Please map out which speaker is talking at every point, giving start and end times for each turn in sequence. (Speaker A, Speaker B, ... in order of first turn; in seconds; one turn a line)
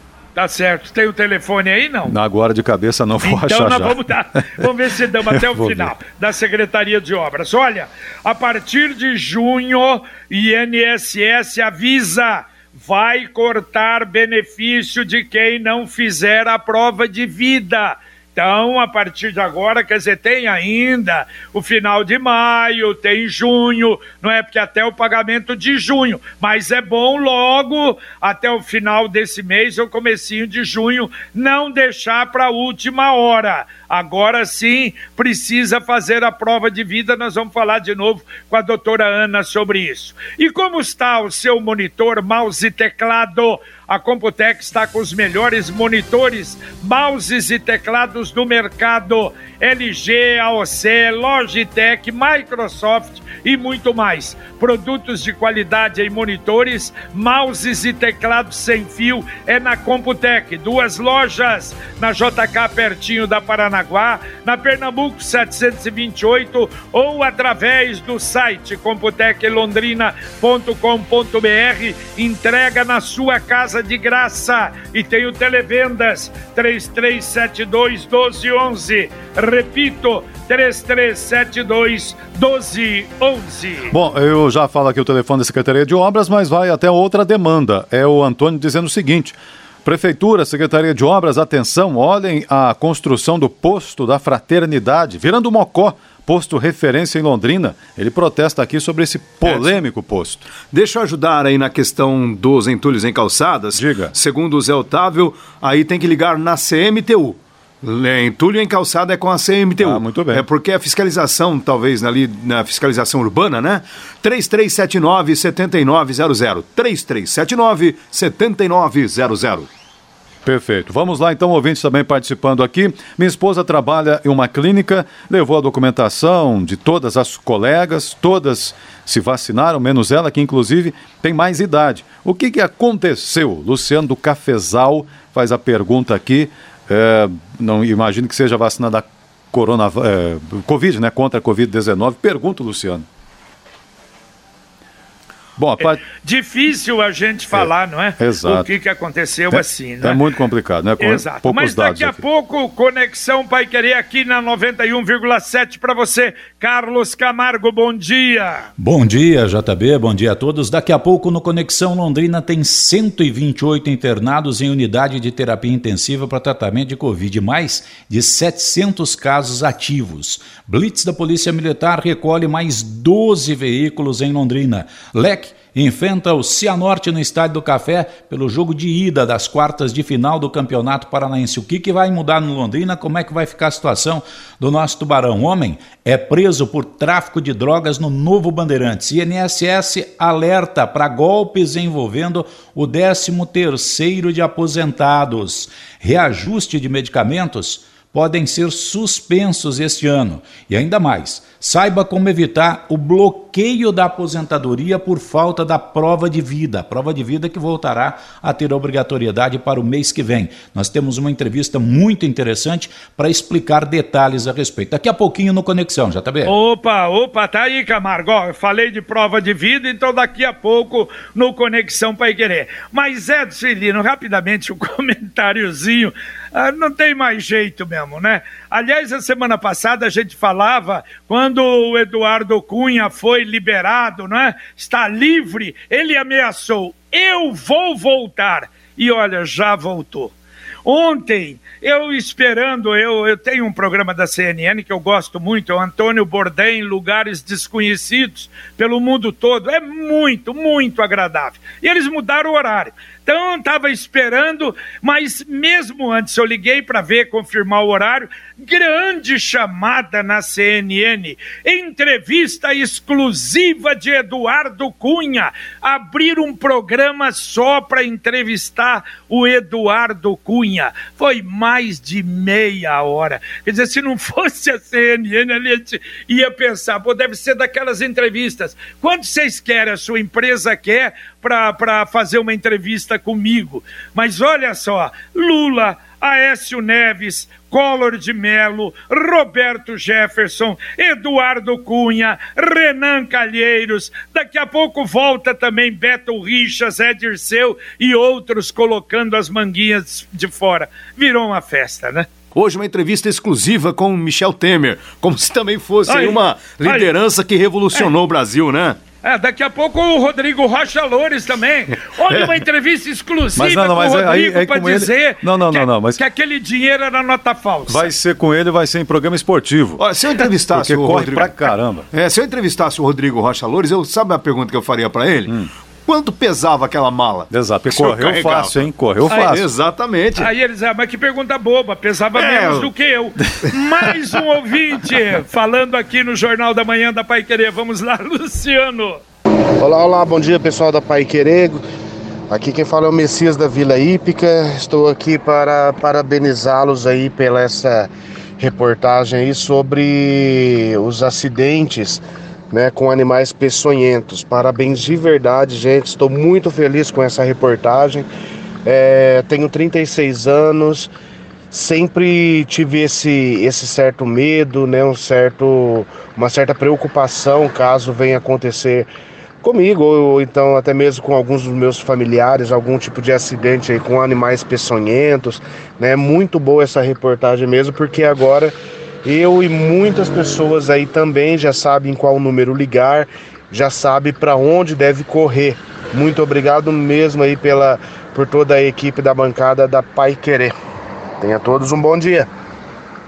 Speaker A: 0.4-2.2
Speaker B: 2.1-4.7
Speaker A: 3.2-84.0
Speaker B: 5.3-5.9
Speaker B: 83.9-100.5
Speaker C: 100.7-119.7
Speaker B: 103.8-104.1
Speaker B: 109.8-110.5
Speaker B: 120.5-143.1
Speaker B: 145.6-146.0
Speaker A: 145.8-150.2
Speaker B: 147.5-148.7
Speaker B: 149.5-152.2
Speaker A: 151.0-158.7
Speaker D: 158.8-216.5
Speaker A: 216.4-240.3
Speaker A: 240.8-302.3
Speaker C: 302.5-309.0
Speaker A: 306.1-307.1
Speaker A: 309.2-318.1
Speaker B: 313.6-316.2
Speaker B: 317.9-320.0
Speaker C: 320.0-321.6
Speaker B: 320.7-322.1
Speaker C: 322.1-328.9
Speaker B: 327.5-329.7
Speaker C: 329.4-330.5
Speaker A: 330.4-339.2
Speaker C: 332.4-332.9
Speaker E: 339.8-341.8
Speaker E: 342.5-358.3
Speaker E: 358.9-361.1
Speaker E: 361.7-369.1
Speaker E: 369.6-390.7
Speaker E: 391.4-392.5